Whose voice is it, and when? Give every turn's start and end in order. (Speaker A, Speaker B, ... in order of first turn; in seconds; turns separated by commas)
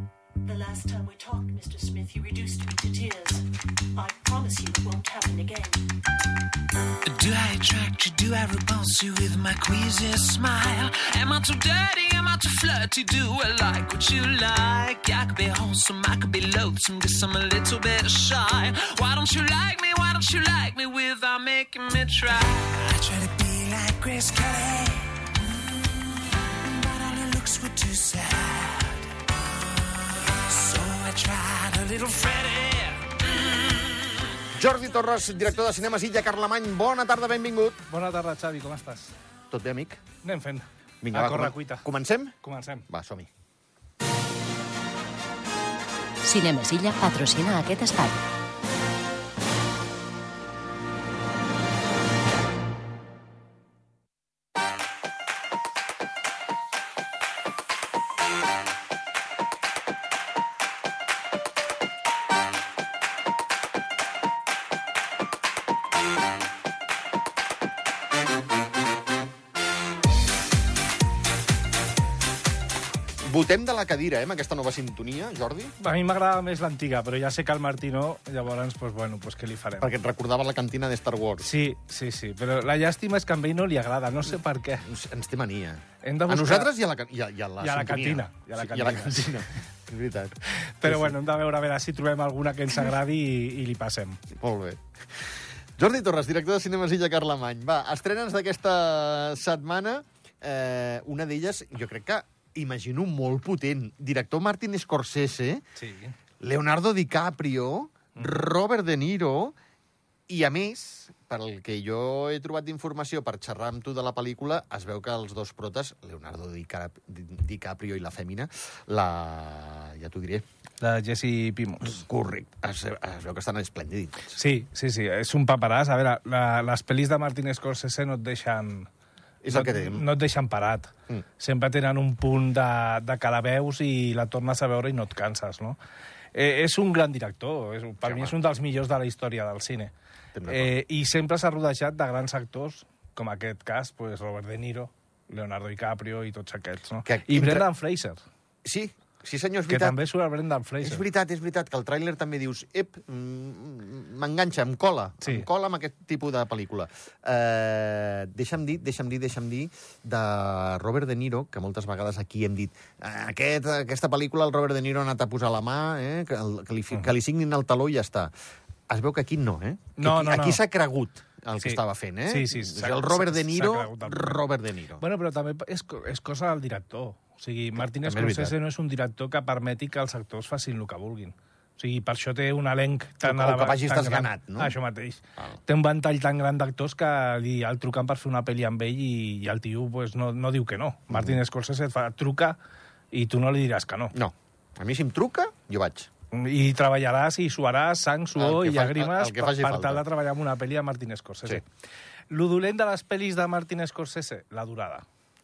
Speaker A: 0.5-3.4, Speaker A: 4.0-5.8, Speaker B: 7.0-25.3, Speaker B: 26.4-28.9, Speaker B: 30.4-33.1, Speaker C: 34.5-37.8, Speaker D: 37.9-39.1, Speaker C: 39.5-40.0, Speaker D: 40.2-41.9, Speaker C: 41.0-42.4, Speaker D: 42.4-42.9, Speaker C: 42.9-43.3, Speaker E: 46.2-48.2, Speaker C: 73.2-75.7, Speaker D: 75.8-79.9, Speaker C: 79.8-81.5, Speaker D: 81.4-84.8, Speaker C: 84.8-91.2, Speaker D: 86.0-86.7, Speaker D: 87.6-89.4, Speaker D: 90.6-94.2, Speaker C: 94.4-94.8, Speaker C: 95.8-105.6, Speaker D: 105.8-106.2, Speaker C: 106.4-109.5, Speaker C: 110.3-120.5, Speaker D: 120.8-122.0, Speaker C: 121.8-124.4, Speaker D: 124.4-128.9, Speaker C: 129.4-130.1, Speaker D: 129.5-135.8, Speaker D: 136.3-139.9, Speaker C: 138.0-138.4, Speaker C: 140.3-140.8, Speaker D: 140.5-148.2, Speaker C: 147.1-147.7, Speaker C: 148.7-150.0, Speaker D: 149.7-151.1, Speaker C: 150.8-168.3, Speaker D: 155.2-155.5, Speaker C: 168.9-175.0, Speaker D: 170.0-170.6, Speaker D: 171.6-174.4, Speaker D: 175.0-192.6, Speaker C: 177.8-178.6, Speaker C: 183.2-184.8, Speaker C: 191.1-191.4, Speaker D: 193.1-194.2, Speaker C: 194.1-196.1, Speaker D: 196.3-201.7, Speaker C: 198.4-200.1, Speaker D: 202.3-205.1